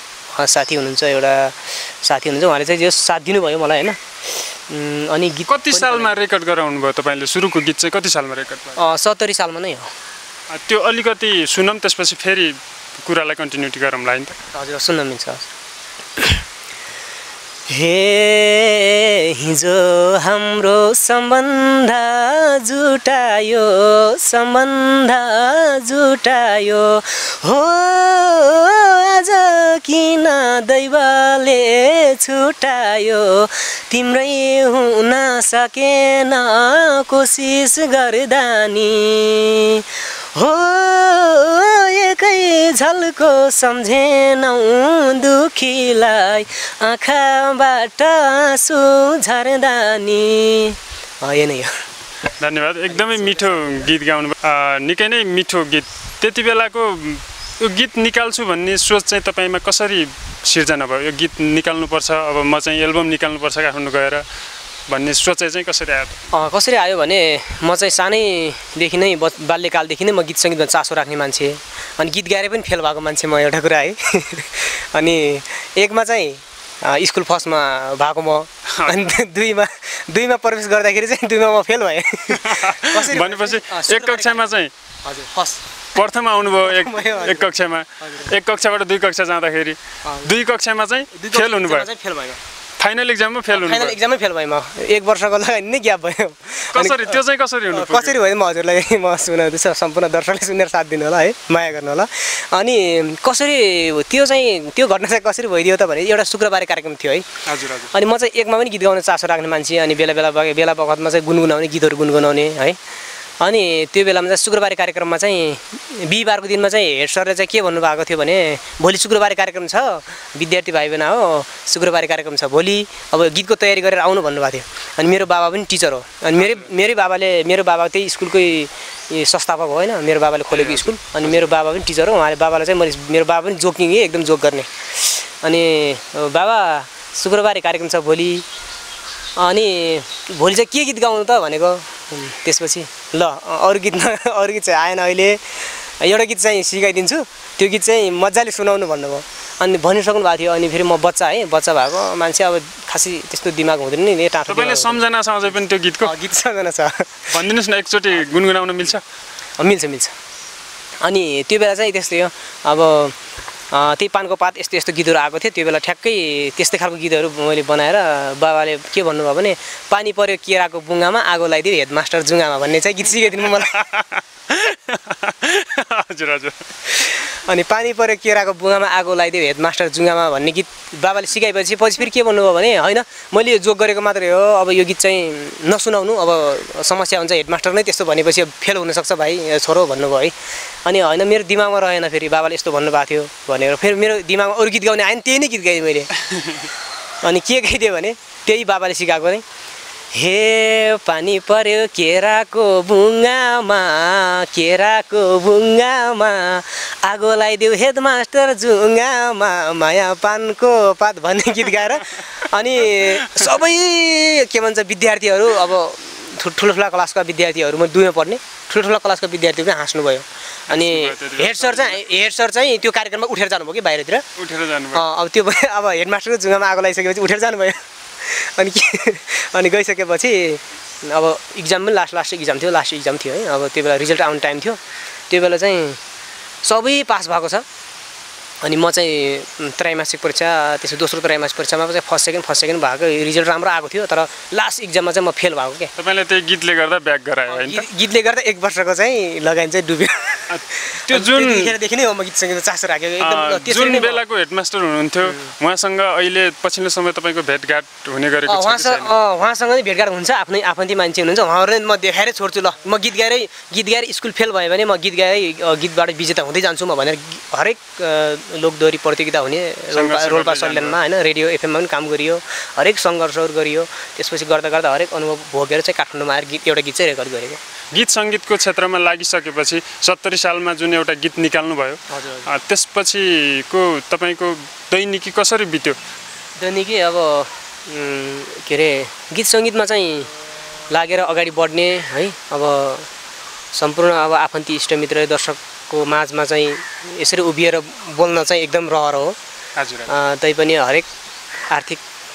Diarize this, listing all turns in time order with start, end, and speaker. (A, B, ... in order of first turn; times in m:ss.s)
0:00.4-0:06.2 A
0:05.5-0:08.8 B
0:08.8-0:09.9 A
0:10.5-0:14.4 B
0:14.5-0:15.5 A
0:17.7-0:51.8 A
0:52.4-1:04.2 B
0:52.9-0:53.9 A
1:04.9-1:06.2 B
1:06.3-1:24.5 A
1:18.7-1:19.1 B
1:22.3-1:24.7 B
1:25.0-1:25.6 A
1:26.0-1:31.9 B
1:26.6-1:27.5 A
1:28.0-1:28.3 A
1:30.0-1:30.3 A
1:31.1-1:32.4 A
1:32.8-1:34.0 B
1:33.5-1:47.3 A
1:36.7-1:38.2 B
1:47.5-1:47.9 B
1:47.9-1:52.8 A
1:53.4-2:18.4 A
2:06.3-2:06.7 B
2:10.5-2:11.5 B
2:19.4-2:35.0 A
2:34.5-2:36.2 B
2:36.0-2:37.3 A
2:37.3-2:39.0 B
2:39.6-2:40.1 A
2:41.0-2:43.2 A
2:43.7-2:53.8 A
2:53.3-2:57.1 B
2:57.2-3:10.3 A
3:10.8-3:16.1 A
3:17.2-3:19.4 A
3:20.1-3:44.2 A
3:32.9-3:33.5 B
3:40.7-3:42.0 B
3:44.4-3:45.1 B
3:44.9-3:56.0 A
3:56.6-3:57.6 A
3:58.6-4:05.9 A
4:06.0-4:07.8 B
4:07.5-4:14.2 A
4:10.5-4:11.7 B
4:13.2-4:19.1 B
4:15.2-4:15.5 A
4:18.5-4:37.6 A
4:29.9-4:31.0 B
4:37.9-4:46.0 B
4:42.1-4:42.5 A
4:46.6-4:50.3 A
4:50.9-4:53.1 A
4:53.7-4:59.4 A
4:59.8-5:00.2 B
5:00.1-5:01.1 A
5:01.7-5:02.0 A